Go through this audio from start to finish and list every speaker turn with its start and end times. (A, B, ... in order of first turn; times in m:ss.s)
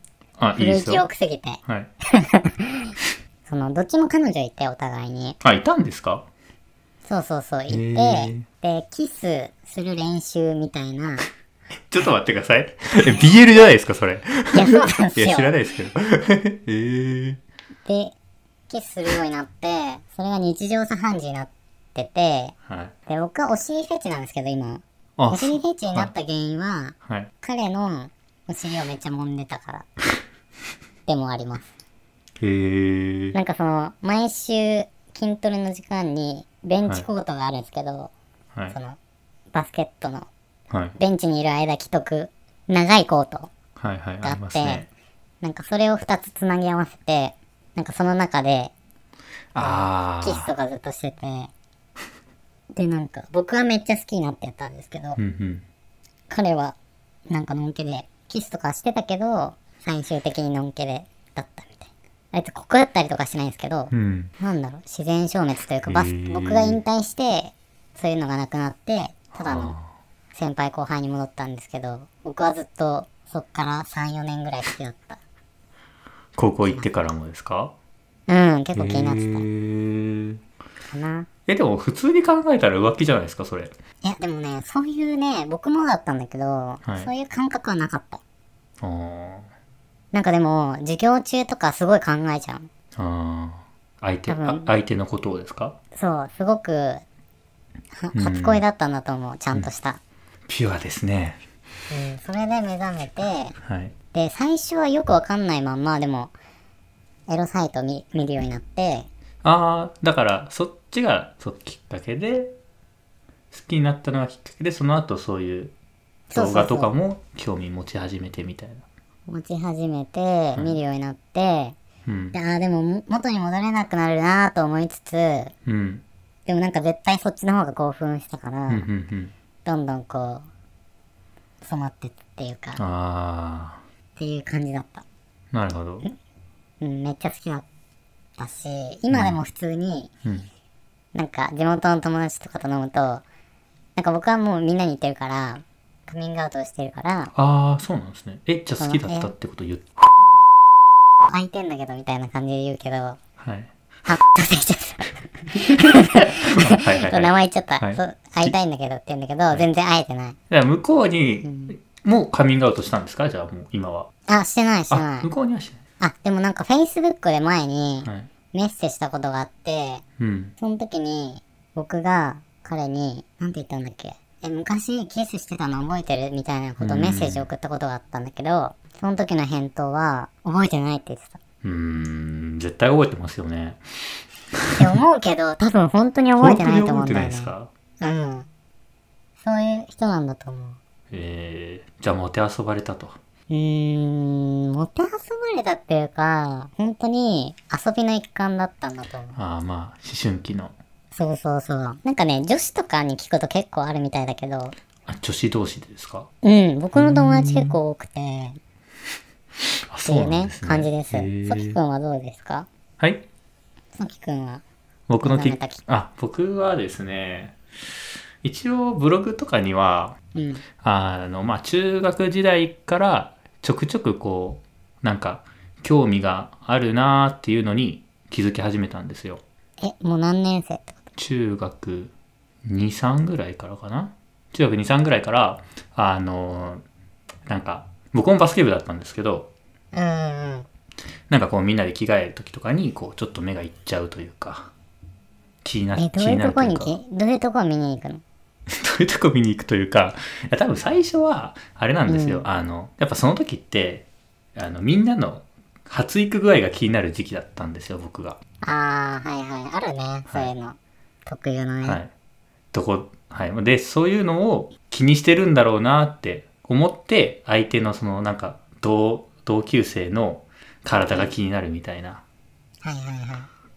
0:00.4-0:01.0 A
0:00.6-0:03.0 B
0:03.5-0:05.4 B
0:05.4-0:06.3 A
0:07.1-0:11.3 B
0:07.7-0:08.5 A
0:11.9-0:17.4 A
0:14.5-0:15.5 B
0:17.9-0:18.1 B
0:18.7-0:22.5 B
0:22.7-0:22.9 A
0:23.1-0:29.9 B
0:25.2-0:26.1 A
0:27.0-0:27.3 A
0:31.1-0:31.7 B
0:32.4-0:33.4 A
0:33.3-0:38.1 B
0:38.7-0:39.0 B
0:39.5-0:40.3 B
0:40.7-0:41.0 A
0:41.0-0:43.5 B
0:43.8-0:44.9 A
0:44.2-0:44.9 B
0:45.4-0:48.7 B
0:49.6-0:50.5 A
0:49.6-0:51.5 B
0:52.7-0:55.2 B
0:55.2-0:55.6 A
0:56.3-0:56.8 B
0:57.3-1:09.8 B
1:03.9-1:04.3 A
1:05.9-1:06.8 A
1:09.4-1:09.9 A
1:10.3-1:15.2 B
1:16.4-1:17.7 A
1:18.3-1:19.5 B
1:18.8-1:20.4 A
1:20.9-1:21.3 B
1:21.5-1:23.7 A
1:24.0-1:28.2 B
1:26.9-1:27.1 A
1:28.8-1:29.5 A
1:30.1-1:32.7 B
1:33.0-1:35.8 A
1:34.3-1:34.7 B
1:36.0-1:37.0 B
1:38.0-1:40.0 B
1:38.2-1:38.6 A
1:40.5-1:41.4 A
1:41.9-1:43.6 B
1:43.6-1:43.9 A
1:44.1-1:46.3 B
1:47.3-1:49.1 B
1:49.4-1:52.6 A
1:53.5-1:55.7 A
1:56.3-1:56.9 B
1:56.3-1:58.8 A
1:59.3-2:01.8 B
2:02.1-2:02.4 A
2:02.3-2:05.5 B
2:05.7-2:06.0 A
2:06.5-2:08.9 B
2:08.7-2:09.3 A
2:09.6-2:10.5 B
2:11.6-2:12.8 B
2:12.8-2:13.8 A
2:14.2-2:15.0 B
2:15.5-2:16.0 A
2:16.8-2:17.6 B
2:18.4-2:20.1 B
2:19.1-2:19.4 A
2:21.1-2:23.2 B
2:24.0-2:27.3 B
2:27.4-2:29.9 A
2:28.8-2:29.3 B
2:31.3-2:33.2 B
2:33.4-2:33.7 A
2:34.1-2:40.4 B
2:35.8-2:38.5 A
2:40.5-2:44.1 A
2:41.4-2:41.7 B
2:44.3-2:45.3 B
2:44.9-2:45.8 A
2:46.0-2:50.0 B
2:50.2-2:50.6 A
2:50.6-3:01.4 B
2:56.8-2:57.5 A
3:01.6-3:03.8 A
3:04.6-3:04.9 A
3:04.8-3:08.5 B
3:06.4-3:07.7 A
3:09.4-3:10.8 B
3:11.1-3:13.2 A
3:13.5-3:19.4 B
3:19.4-3:20.8 A
3:21.1-3:24.8 B
3:25.1-3:26.3 A
3:26.4-3:28.6 B
3:27.0-3:27.8 A
3:29.9-3:31.8 A
3:30.0-3:32.7 B
3:33.0-3:33.2 A
3:34.0-3:34.6 B
3:35.1-3:37.6 A
3:35.2-3:35.8 B
3:38.4-3:40.2 A
3:40.4-3:40.6 B
3:40.8-3:49.4 A
3:49.8-3:51.0 B
3:51.2-3:52.1 A
3:52.6-3:56.8 A
3:57.5-3:59.5 A
3:59.9-4:00.7 B
4:01.3-4:04.7 A
4:05.6-4:07.0 A
4:06.0-4:08.2 B
4:08.7-4:18.4 A
4:12.1-4:12.5 B
4:18.6-4:22.0 B
4:21.8-4:22.1 A
4:22.7-4:32.2 A
4:31.1-4:31.3 B
4:32.8-4:33.5 B